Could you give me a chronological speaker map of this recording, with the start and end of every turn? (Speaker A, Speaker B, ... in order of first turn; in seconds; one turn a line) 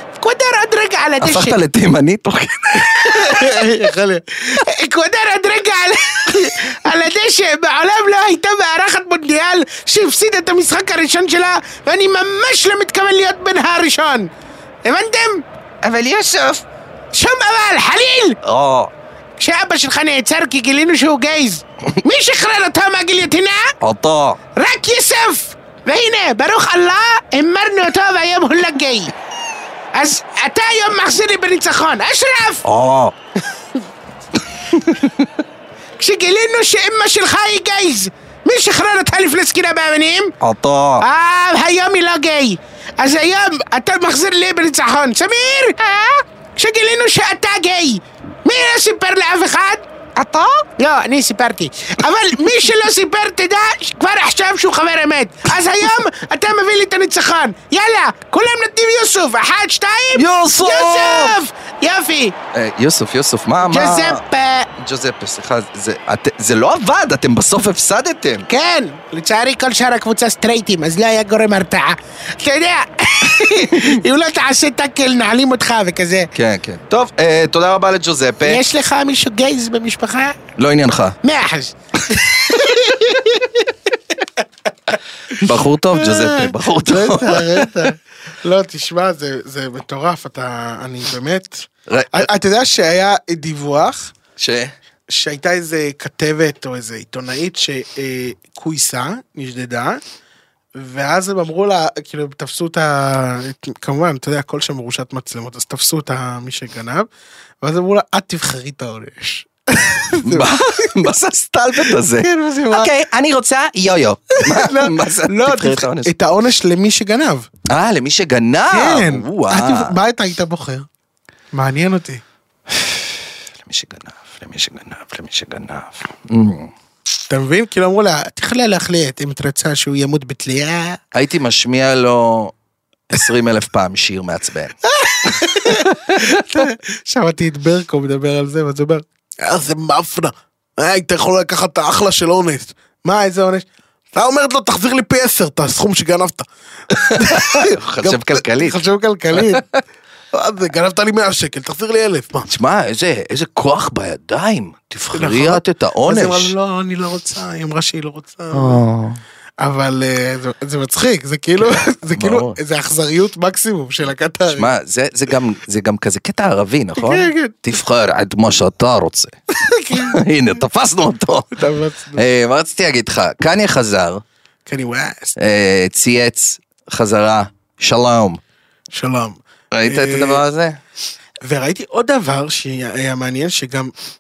Speaker A: 0.2-1.6
Speaker B: 1.2-3.6
Speaker C: 3.2-4.2
Speaker A: 3.3-3.6
Speaker A: 4.5-14.3
Speaker A: 14.8-15.4
Speaker B: 15.8-16.6
Speaker A: 17.1-18.4
Speaker B: 18.4-18.9
Speaker A: 19.4-23.7
Speaker B: 23.8-24.4
Speaker A: 24.6-29.1
Speaker A: 29.9-32.6
Speaker B: 32.6-33.1
Speaker B: 34.7-35.3
Speaker A: 36.0-40.3
Speaker B: 40.4-41.1
Speaker A: 41.0-49.9
Speaker B: 50.2-50.6
Speaker A: 50.7-62.4
Speaker B: 60.1-61.4
Speaker B: 62.5-64.2
Speaker A: 63.7-64.7
Speaker B: 64.8-68.5
Speaker A: 68.5-76.3
Speaker B: 76.3-78.6
Speaker A: 78.5-80.4
Speaker B: 80.6-81.2
Speaker A: 81.2-83.6
Speaker B: 85.3-87.9
Speaker C: 86.0-94.1
Speaker B: 91.9-92.3
Speaker B: 94.4-94.7
Speaker C: 95.1-100.0
Speaker C: 100.8-107.1
Speaker C: 107.6-111.0
Speaker B: 110.2-116.1
Speaker C: 111.9-112.9
Speaker C: 114.3-117.5
Speaker B: 117.7-119.9
Speaker C: 118.7-120.9
Speaker C: 121.5-122.2
Speaker B: 122.7-126.7
Speaker C: 127.3-131.0
Speaker B: 131.1-132.5
Speaker B: 133.1-134.7
Speaker C: 134.9-149.7
Speaker B: 135.7-136.3
Speaker B: 147.0-148.8
Speaker B: 149.3-149.6
Speaker C: 150.3-152.5
Speaker B: 152.5-156.5
Speaker C: 155.1-158.8
Speaker B: 158.5-159.2
Speaker C: 159.6-164.7
Speaker B: 161.6-162.6
Speaker B: 164.6-169.4
Speaker C: 167.0-167.6
Speaker C: 169.6-170.2
Speaker B: 169.9-171.5
Speaker C: 171.5-172.2
Speaker B: 172.2-174.2
Speaker C: 174.7-175.4
Speaker B: 175.4-178.4
Speaker C: 178.9-180.4
Speaker B: 179.7-180.8
Speaker C: 181.4-183.9